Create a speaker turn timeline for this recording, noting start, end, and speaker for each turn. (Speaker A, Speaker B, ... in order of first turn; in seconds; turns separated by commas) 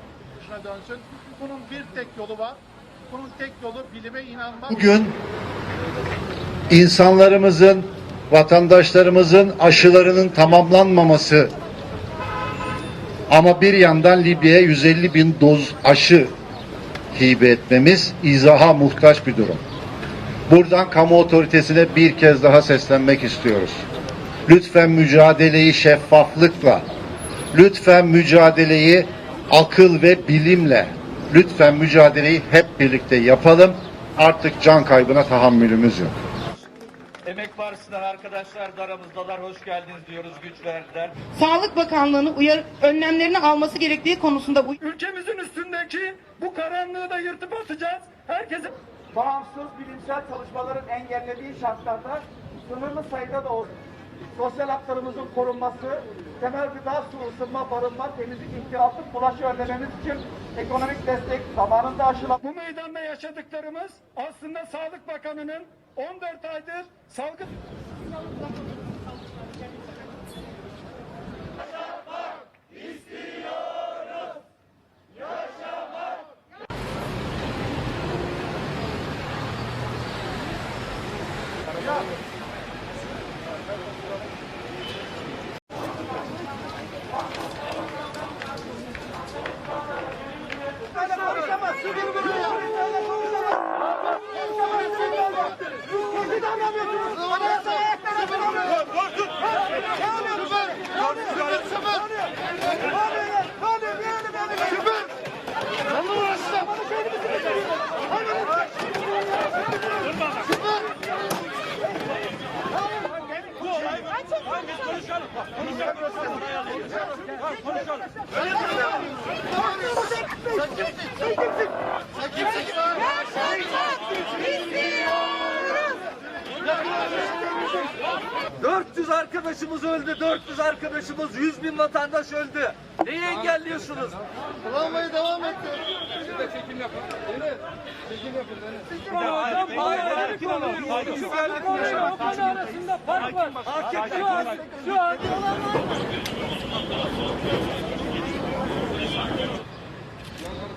Speaker A: 0.4-4.7, Speaker B: 4.7-5.2, Speaker B: 6.7-11.5, Speaker B: 13.3-16.3, Speaker B: 17.1-19.6, Speaker B: 20.5-23.8, Speaker B: 24.5-26.9, Speaker B: 27.5-36.1, Speaker C: 37.2-41.2, Speaker D: 41.3-44.8, Speaker E: 44.8-48.7, Speaker F: 49.1-53.8, Speaker F: 54.3-62.4, Speaker E: 62.4-67.5, Speaker F: 91.2-91.8, Speaker D: 91.5-92.5, Speaker E: 94.7-95.5, Speaker D: 96.3-98.8, Speaker E: 96.7-97.2, Speaker C: 128.6-134.2, Speaker C: 134.8-135.6, Speaker C: 139.2-144.8, Speaker E: 142.3-142.8